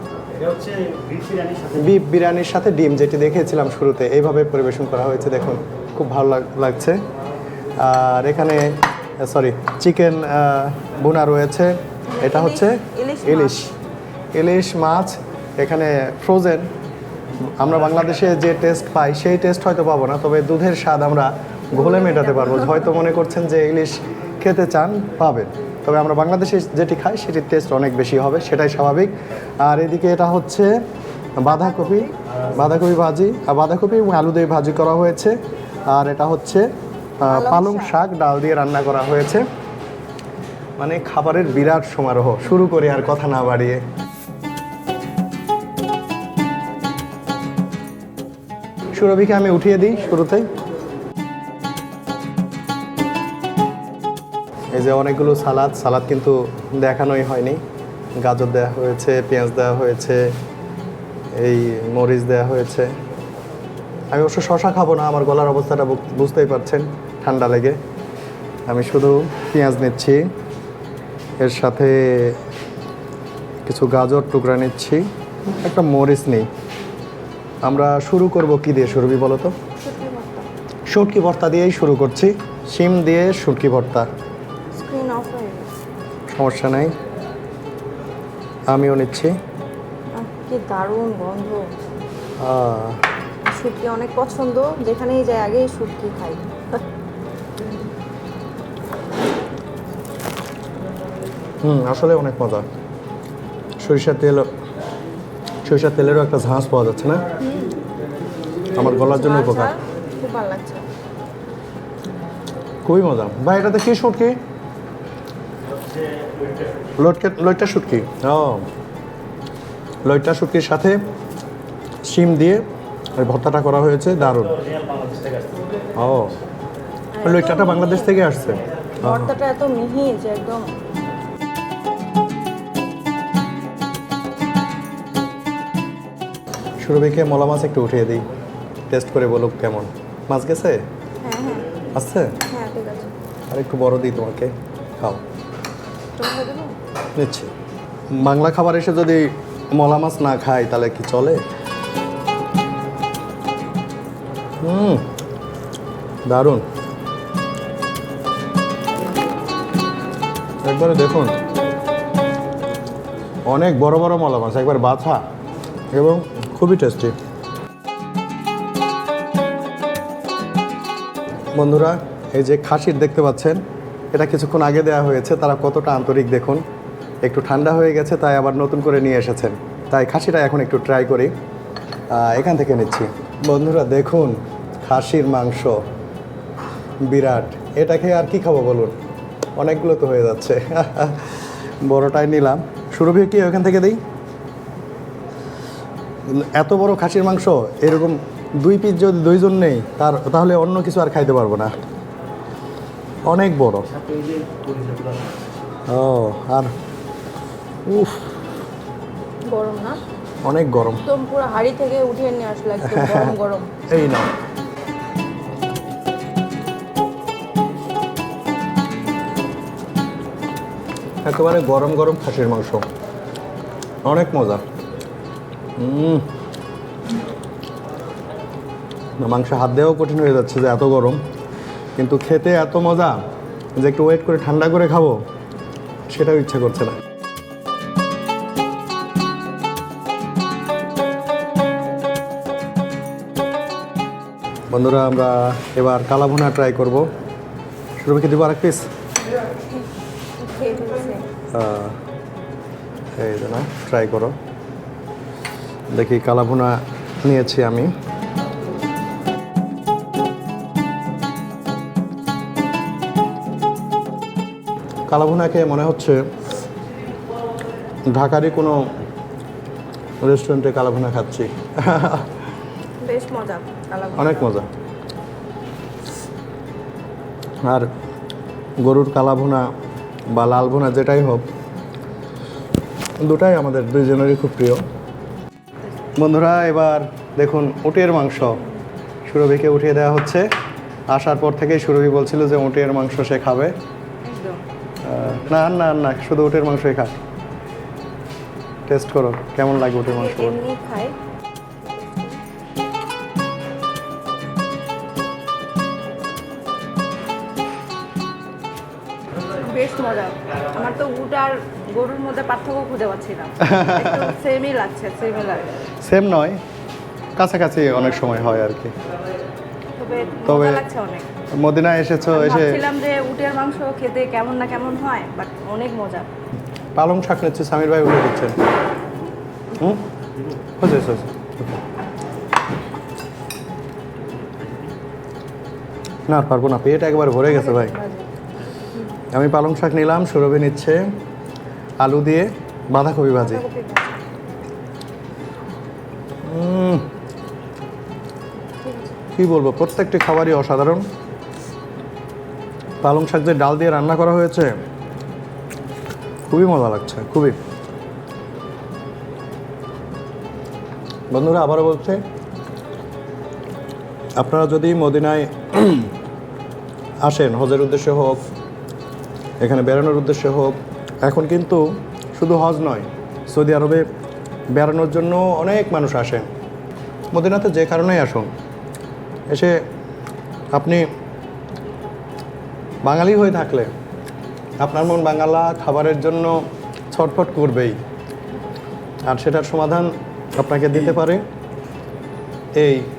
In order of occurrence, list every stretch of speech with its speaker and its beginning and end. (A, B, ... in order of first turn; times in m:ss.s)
0:00.4-0:02.0 A
0:01.8-0:07.0 B
0:07.8-0:08.7 B
0:09.2-0:13.7 B
0:12.1-0:13.6 C
0:14.3-0:16.7 B
0:17.6-0:30.7 B
0:21.8-0:22.8 C
0:31.4-0:35.3 B
0:31.5-0:32.1 C
0:35.9-0:36.6 B
0:37.2-0:39.4 B
0:37.3-0:38.0 C
0:40.8-0:43.8 B
0:48.9-0:50.4 B
0:54.7-0:57.6 B
0:58.2-1:00.2 B
1:01.4-1:02.9 B
1:04.1-1:07.8 B
1:08.7-1:10.2 B
1:11.4-1:12.4 B
1:13.6-1:16.5 B
1:17.6-1:19.5 B
1:19.8-1:20.5 C
1:20.9-1:24.1 B
1:24.8-1:25.7 C
1:26.3-1:26.9 B
1:28.7-1:29.3 B
1:30.2-1:31.6 C
1:32.4-1:33.0 B
1:33.5-1:36.8 C
1:41.6-1:42.6 B
1:43.8-1:44.5 B
1:45.6-1:47.2 B
1:47.4-1:47.7 C
1:48.7-1:49.7 B
1:48.8-1:50.8 C
1:52.8-1:54.3 B
1:55.7-1:56.6 A
1:57.0-1:58.6 B
2:00.0-2:01.0 B
2:02.1-2:02.6 B
2:03.2-2:04.6 B
2:04.2-2:05.7 A
2:06.0-2:06.4 B
2:07.2-2:08.2 C
2:07.2-2:09.3 B
2:09.0-2:10.7 C
2:16.8-2:18.2 B
2:18.9-2:20.8 B
2:21.2-2:21.7 C
2:21.9-2:22.3 B
2:22.5-2:23.1 C
2:23.5-2:25.2 B
2:26.2-2:26.7 C
2:27.2-2:27.5 B
2:28.2-2:31.4 B
2:34.6-2:35.0 B
2:36.3-2:36.6 B
2:40.6-2:41.3 B
2:43.5-2:45.2 B
2:45.9-2:47.1 B
2:51.6-2:53.6 B
2:54.1-2:56.6 B
2:57.2-3:01.3 B
3:02.1-3:05.8 B
3:07.1-3:09.0 B
3:09.6-3:14.0 B
3:16.3-3:21.8 B
3:23.3-3:23.9 B
3:25.9-3:26.7 B
3:27.9-3:28.2 B
3:29.5-3:30.0 C
3:30.4-3:31.0 B
3:31.0-3:33.7 C
3:32.8-3:33.4 B
3:33.9-3:34.3 B
3:41.2-3:42.8 B
3:44.0-3:44.6 B
3:45.8-3:46.2 B
3:49.2-3:51.2 B
3:52.0-3:53.2 B
3:53.8-3:55.2 B
3:56.1-3:57.0 B
4:04.7-4:07.0 B
4:08.0-4:08.9 B
4:10.4-4:11.3 C
4:11.5-4:11.9 B
4:13.2-4:14.3 B
4:15.9-4:17.9 B
4:25.1-4:26.2 B
4:28.1-4:28.8 B
4:30.2-4:32.3 B
4:33.0-4:34.5 C
4:34.2-4:34.7 B
4:38.8-4:39.7 B
4:40.3-4:41.4 B
4:43.2-4:44.8 B
4:46.2-4:48.6 B
4:49.2-4:50.4 B
4:51.1-4:53.7 B
4:54.2-4:54.6 C
4:55.0-4:57.2 B
4:58.9-5:00.6 B
5:00.1-5:01.2 C
5:02.0-5:02.3 C
5:09.6-5:15.7 C
5:13.6-5:14.3 B
5:16.0-5:16.6 B
5:17.4-5:18.9 B
5:20.0-5:21.3 C
5:20.4-5:20.8 B
5:21.6-5:22.8 B
5:22.3-5:26.3 C
5:27.0-5:28.5 B
5:29.8-5:30.0 B
5:30.8-5:31.8 B
5:34.6-5:34.8 A
5:36.3-5:38.0 B
5:37.5-5:38.3 C
5:39.3-5:41.0 B
5:42.0-5:43.6 B
5:43.4-5:44.2 C
5:46.4-5:47.0 B
5:48.8-5:49.1 C
5:49.4-5:51.0 B
5:53.0-5:54.7 B
5:56.5-5:57.6 B
6:01.3-6:02.2 B
6:04.4-6:06.1 B
6:07.2-6:08.4 B
6:09.6-6:11.8 B
6:12.3-6:14.0 B
6:14.7-6:16.5 B
6:17.3-6:18.5 B
6:20.7-6:21.0 B
6:23.0-6:23.9 B
6:24.8-6:26.6 B
6:27.1-6:27.9 B
6:29.3-6:31.4 B
6:32.8-6:33.0 B